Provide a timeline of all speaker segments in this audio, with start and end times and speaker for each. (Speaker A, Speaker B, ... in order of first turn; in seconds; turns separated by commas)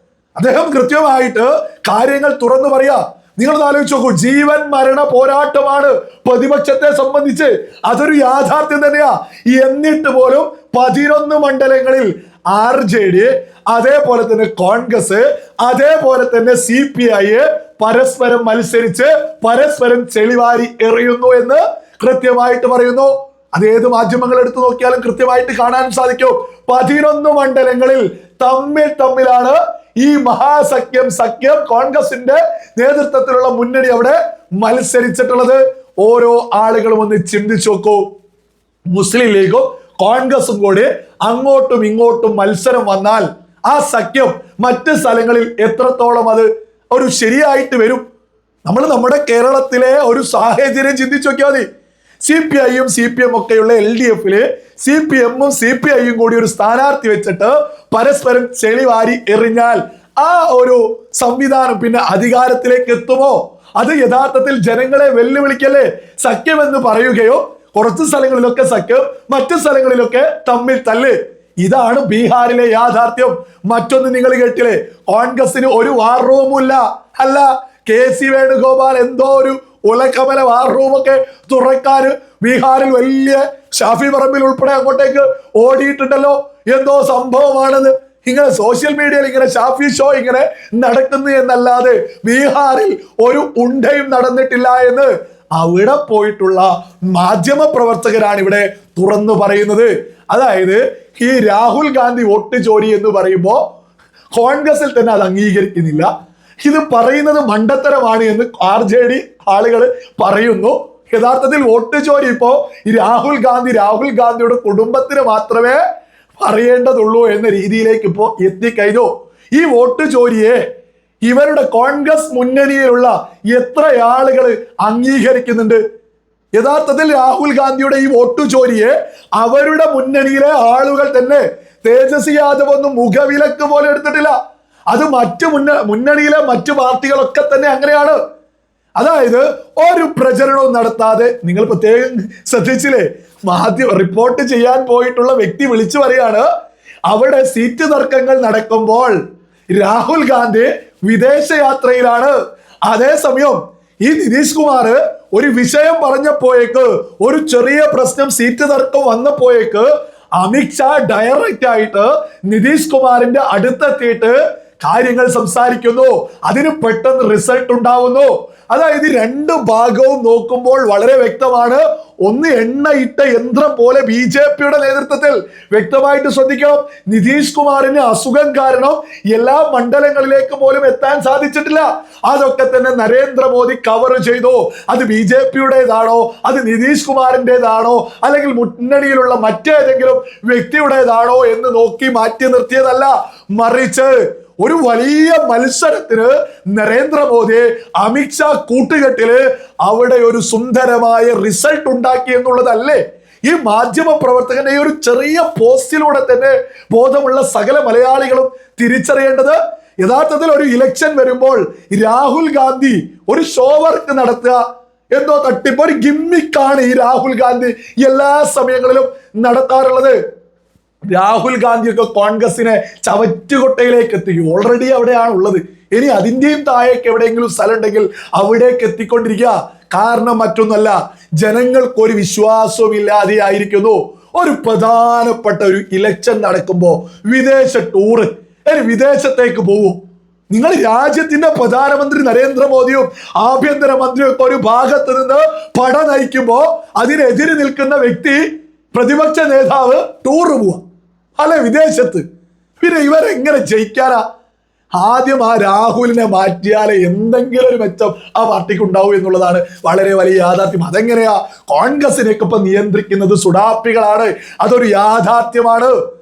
Speaker A: 0.3-38.0, Speaker A: 38.9-48.0, Speaker A: 48.6-51.6, Speaker A: 52.2-103.6, Speaker A: 104.3-106.1, Speaker A: 106.6-115.8, Speaker A: 116.4-120.6, Speaker A: 121.2-125.8, Speaker A: 126.5-134.3, Speaker A: 134.9-138.2, Speaker A: 139.0-146.4, Speaker A: 147.1-149.1, Speaker A: 149.7-152.3, Speaker A: 152.9-214.6, Speaker A: 215.1-220.2, Speaker A: 221.1-240.0, Speaker A: 240.5-250.8, Speaker A: 251.4-252.2, Speaker A: 252.8-254.2, Speaker A: 255.0-265.9